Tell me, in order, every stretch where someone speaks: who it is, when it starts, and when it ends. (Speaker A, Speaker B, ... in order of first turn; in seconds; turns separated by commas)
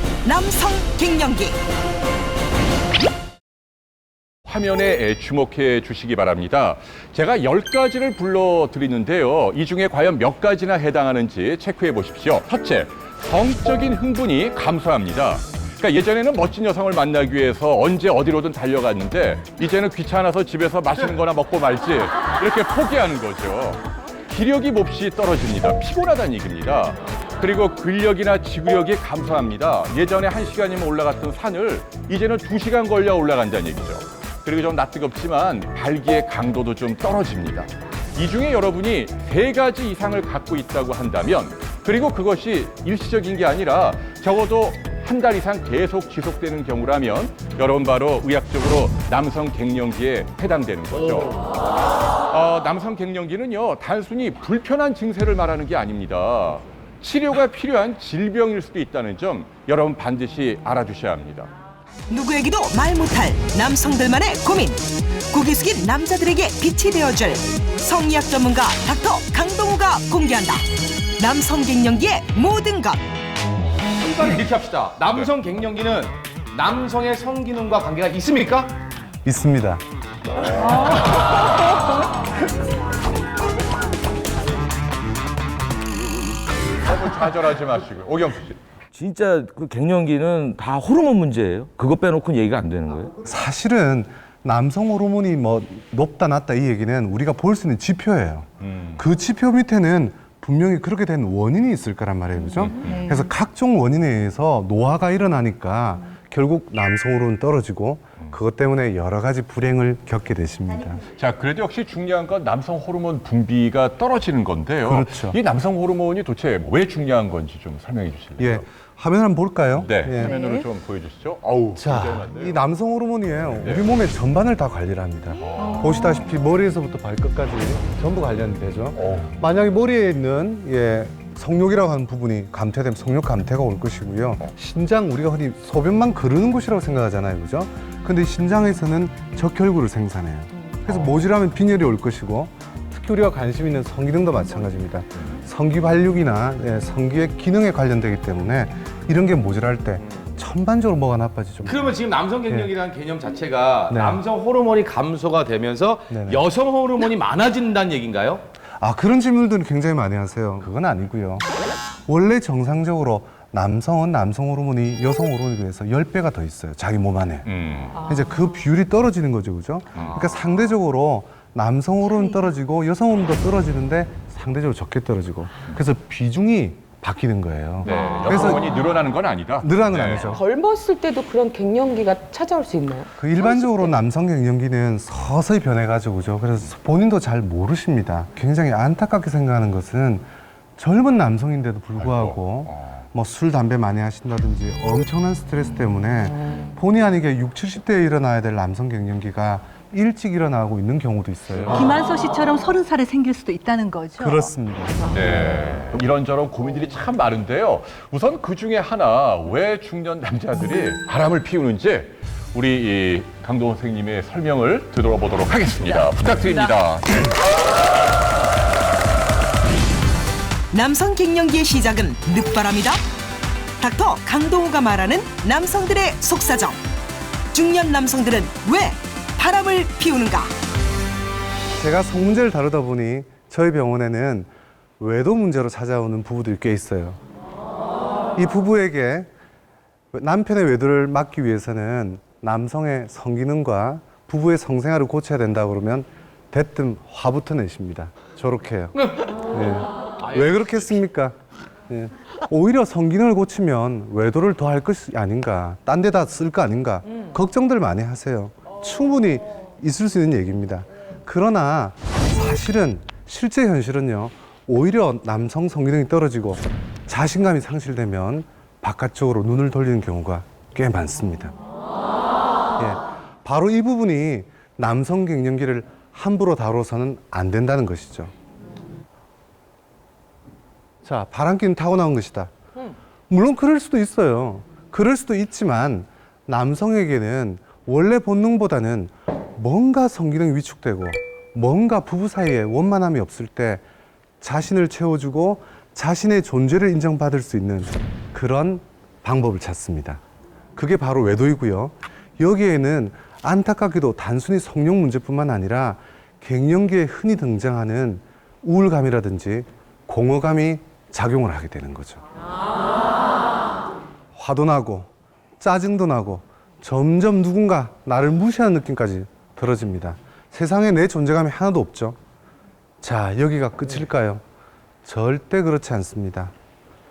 Speaker A: 0.2-1.6, Speaker B: 4.5-51.4, Speaker B: 52.3-61.5, Speaker A: 62.1-73.0, Speaker C: 73.9-78.7, Speaker D: 79.2-79.8, Speaker B: 86.8-88.6, Speaker E: 88.9-93.1, Speaker D: 93.2-111.0, Speaker B: 98.6-99.0, Speaker B: 102.6-103.0, Speaker B: 111.2-118.7, Speaker D: 114.8-115.4, Speaker D: 118.4-120.4, Speaker B: 119.8-122.6, Speaker D: 121.8-152.0, Speaker B: 123.6-123.8, Speaker B: 125.4-126.1, Speaker B: 128.9-129.3, Speaker B: 140.9-141.2, Speaker C: 151.7-158.4, Speaker D: 153.9-154.2, Speaker D: 156.1-156.4, Speaker D: 158.8-161.5, Speaker D: 162.1-178.7, Speaker B: 167.5-168.0, Speaker B: 170.0-170.3, Speaker B: 177.8-180.4, Speaker D: 179.6-180.4, Speaker F: 180.4-183.6, Speaker D: 183.2-202.0, Speaker B: 192.0-193.0, Speaker B: 201.6-201.9, Speaker G: 201.8-204.1, Speaker D: 204.2-205.2, Speaker B: 205.1-217.3, Speaker A: 220.7-223.0, Speaker A: 223.8-226.8, Speaker A: 227.5-230.5, Speaker D: 231.8-237.2, Speaker D: 238.3-239.3, Speaker D: 240.1-248.9, Speaker D: 249.5-251.4, Speaker C: 250.2-250.9, Speaker D: 251.9-271.6, Speaker D: 272.8-278.3, Speaker D: 281.0-282.5, Speaker D: 283.3-293.8, Speaker D: 294.4-300.2, Speaker D: 300.8-312.2, Speaker D: 314.4-322.2, Speaker D: 323.0-324.4, Speaker D: 325.1-326.5